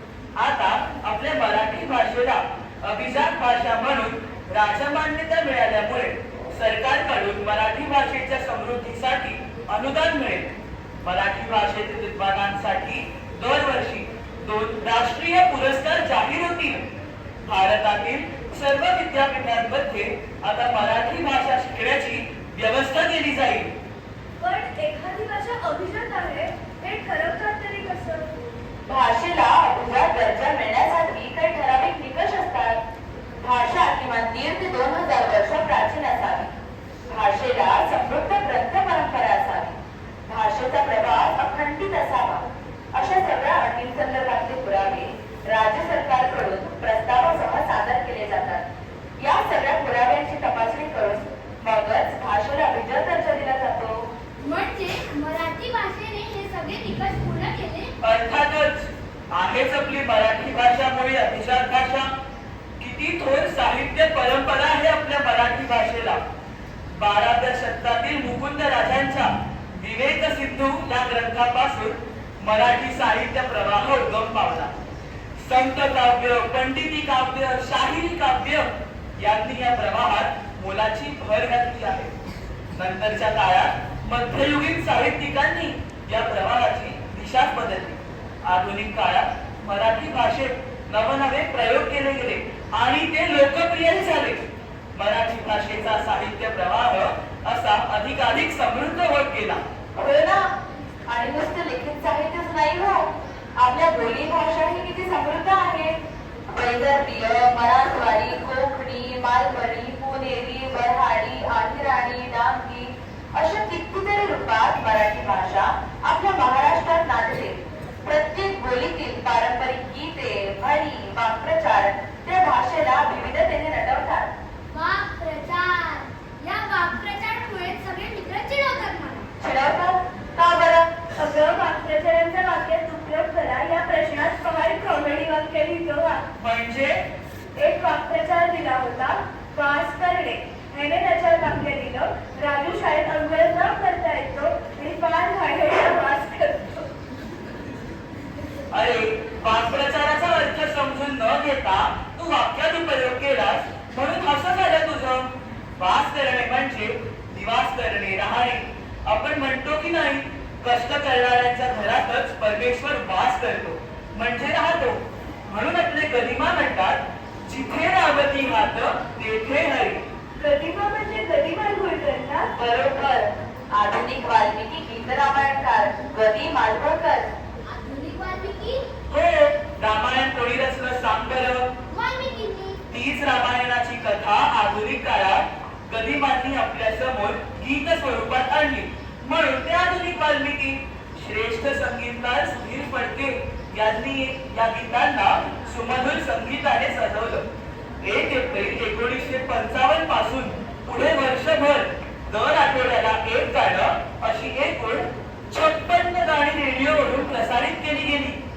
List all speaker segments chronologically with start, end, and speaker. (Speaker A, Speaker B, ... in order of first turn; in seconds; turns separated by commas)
Speaker A: 0.3-10.5, Speaker A: 11.0-16.8, Speaker A: 17.4-23.7, Speaker B: 24.4-28.3, Speaker C: 28.9-32.8, Speaker C: 33.4-36.5, Speaker C: 37.1-39.7, Speaker C: 40.3-42.4, Speaker C: 43.0-48.6, Speaker C: 49.2-54.0, Speaker D: 54.4-57.9, Speaker A: 58.0-62.1, Speaker A: 62.8-66.2, Speaker A: 67.0-74.7, Speaker A: 75.4-82.1, Speaker A: 82.7-94.4, Speaker A: 94.9-99.6, Speaker C: 100.0-100.5, Speaker C: 101.1-103.0, Speaker C: 103.6-105.9, Speaker C: 106.5-124.3, Speaker D: 124.7-129.2, Speaker C: 129.4-130.8, Speaker B: 131.2-136.2, Speaker A: 136.4-137.0, Speaker B: 137.6-146.8, Speaker A: 148.7-170.0, Speaker B: 170.4-172.5, Speaker C: 172.6-177.2, Speaker D: 177.7-178.8, Speaker A: 179.1-181.6, Speaker D: 181.9-182.8, Speaker A: 182.9-197.5, Speaker A: 198.0-208.4